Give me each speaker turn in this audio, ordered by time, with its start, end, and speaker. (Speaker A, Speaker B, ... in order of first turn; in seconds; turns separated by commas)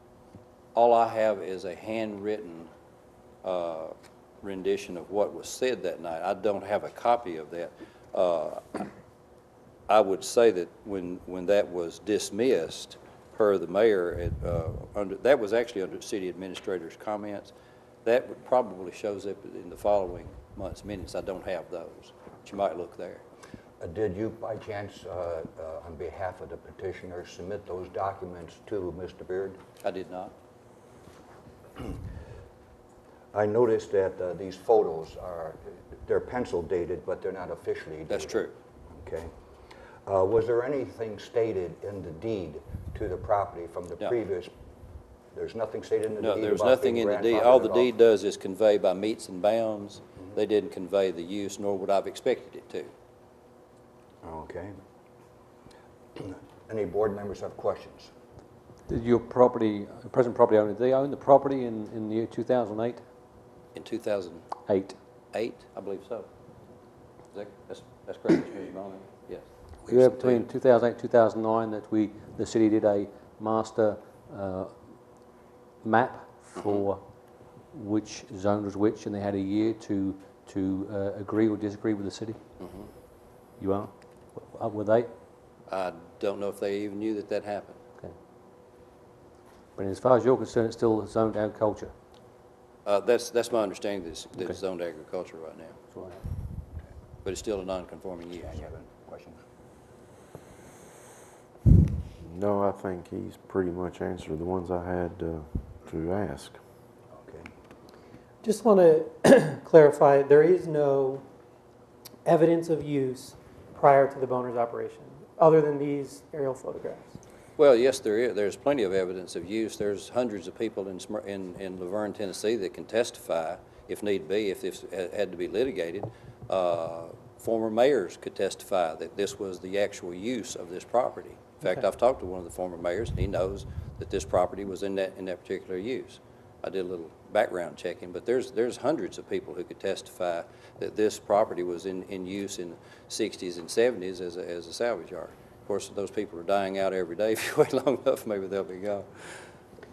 Speaker A: 0.8-2.7, Speaker A: 3.4-8.9, Speaker A: 9.9-17.5, Speaker A: 18.1-23.2, Speaker B: 23.8-29.6, Speaker A: 29.8-30.3, Speaker B: 33.3-39.3, Speaker A: 38.1-38.5, Speaker B: 40.1-44.5, Speaker B: 45.3-47.9, Speaker A: 46.2-52.9, Speaker B: 54.2-54.7, Speaker B: 56.2-58.1, Speaker C: 58.9-63.0, Speaker A: 63.8-64.5, Speaker C: 64.7-65.0, Speaker A: 65.3-66.3, Speaker A: 67.3-70.5, Speaker C: 69.9-74.7, Speaker C: 75.8-77.0, Speaker A: 76.6-76.9, Speaker C: 77.7-82.4, Speaker A: 82.6-82.9, Speaker C: 83.6-85.1, Speaker A: 85.7-87.8, Speaker C: 89.8-91.9, Speaker A: 92.8-95.8, Speaker C: 95.9-96.2, Speaker A: 97.2-98.6, Speaker B: 98.4-99.4, Speaker D: 102.2-106.6, Speaker B: 107.1-107.5, Speaker E: 108.4-111.2, Speaker E: 112.2-117.2, Speaker A: 117.6-149.1